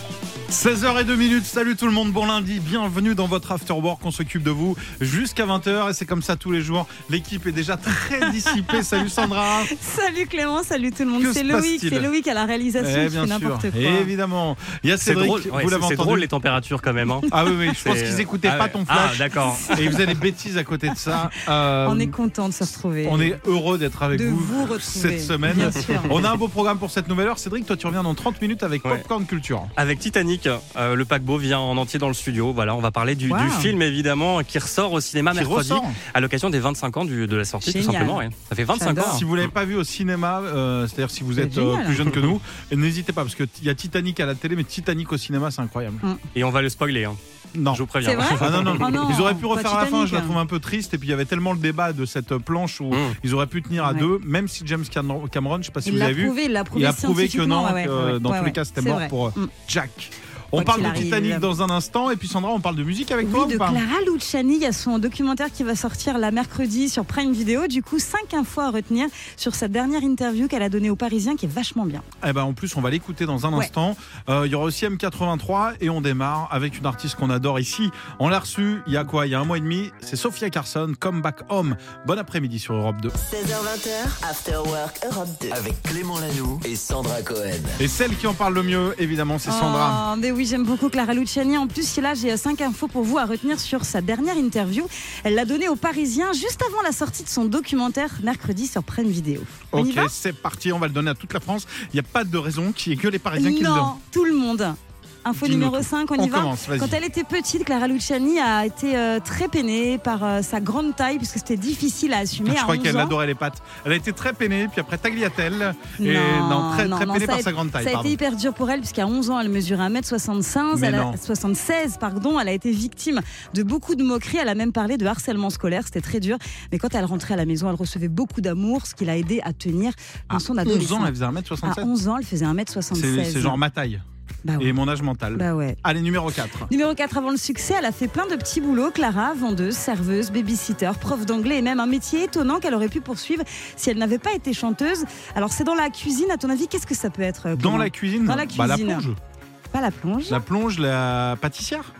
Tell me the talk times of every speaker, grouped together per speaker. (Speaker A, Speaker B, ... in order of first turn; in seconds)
Speaker A: 0.5-9.7, 11.2-12.1, 12.8-16.3, 17.3-22.1, 23.0-29.7, 35.3-36.0, 39.0-46.0, 47.5-63.8, 72.2-83.1, 87.8-90.0, 99.7-104.0, 105.4-107.0, 112.4-118.2, 120.7-121.2, 130.3-131.9, 132.9-134.0, 134.6-136.7, 147.6-149.2, 150.3-151.9
Speaker B: 8.2-9.0, 9.7-14.1, 21.8-23.4, 24.1-26.2, 33.3-33.7, 37.6-38.2, 38.8-39.2, 41.4-42.0, 48.0-50.4, 53.8-54.1, 55.8-59.5, 60.5-61.5, 63.2-72.0, 89.4-100.1, 103.3-113.2, 116.0-131.1, 131.6-133.6, 134.4-134.7, 135.3-135.8, 136.7-149.1, 149.7-150.4
Speaker C: 15.0-20.2, 29.8-39.4, 46.3-47.2, 47.7-48.9
Speaker D: 83.2-85.6
Speaker E: 85.5-87.8